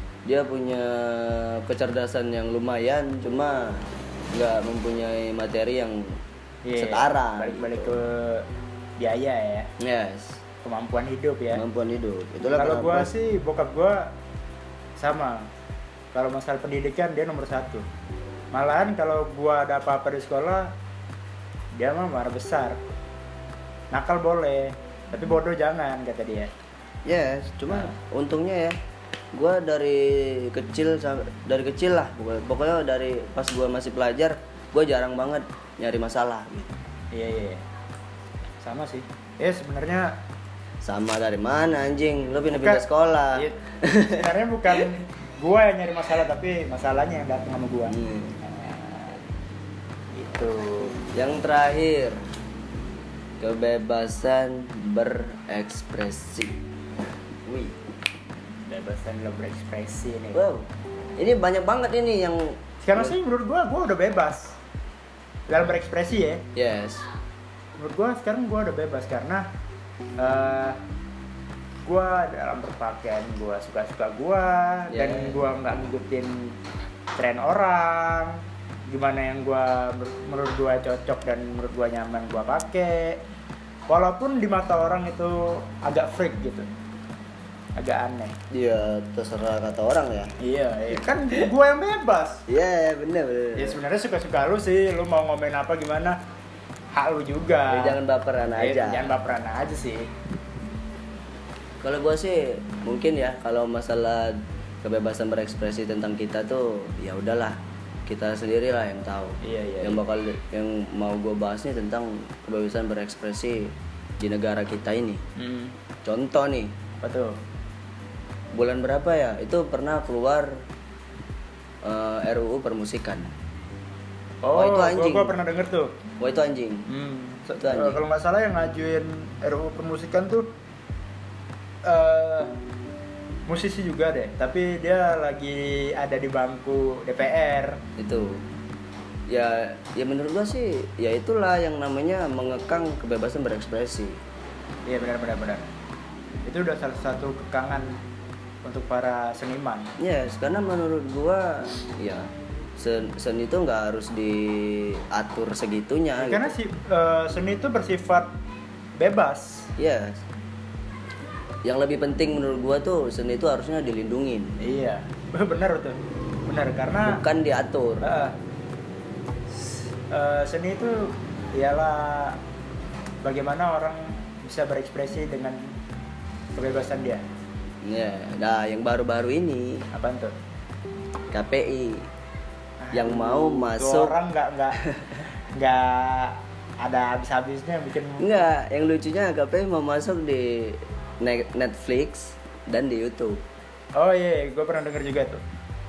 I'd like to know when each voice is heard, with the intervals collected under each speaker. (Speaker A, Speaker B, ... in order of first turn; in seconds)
Speaker A: 0.2-6.2, 6.8-8.0, 9.8-10.4, 11.5-13.1, 27.0-28.8, 29.3-36.7, 40.8-44.9, 47.9-48.4, 51.1-52.2, 53.4-56.6, 57.4-57.8, 60.3-63.1, 66.5-67.0, 74.9-75.4, 88.5-90.3, 91.1-91.5, 92.5-93.8, 97.7-99.1, 101.8-115.2, 116.0-116.7, 118.5-120.5, 121.8-123.3, 124.5-125.3, 126.2-126.8, 127.5-128.0, 138.0-138.4, 139.3-144.2, 150.0-156.5, 159.8-160.2, 161.6-164.5, 167.0-168.0, 177.8-179.9, 181.3-182.1, 182.9-184.1, 184.8-185.1, 188.2-193.4
Speaker B: 6.6-8.4, 9.0-9.7, 10.6-11.6, 12.5-14.1, 15.0-15.5, 16.1-17.8, 18.5-20.7, 21.8-22.8, 23.9-26.5, 37.1-37.6, 38.6-40.1, 42.6-49.2, 50.1-51.0, 58.7-60.4, 62.8-64.6, 65.5-66.4, 67.8-69.4, 70.2-70.8, 71.8-76.5, 77.2-83.2, 83.9-86.7, 87.8-88.3, 90.4-92.5, 93.5-96.2, 96.9-98.0, 98.6-100.1, 109.4-110.0, 115.3-115.7, 117.0-117.4, 124.4-125.9, 126.9-130.5, 131.8-132.5, 133.5-137.8, 144.9-145.6, 146.4-147.9, 148.6-149.9, 156.2-158.3, 159.0-159.7, 164.6-167.2, 168.0-168.3, 170.1-172.4, 173.2-175.7, 176.6-177.2, 179.9-180.3, 182.8-184.8, 185.5-188.3, 193.9-195.4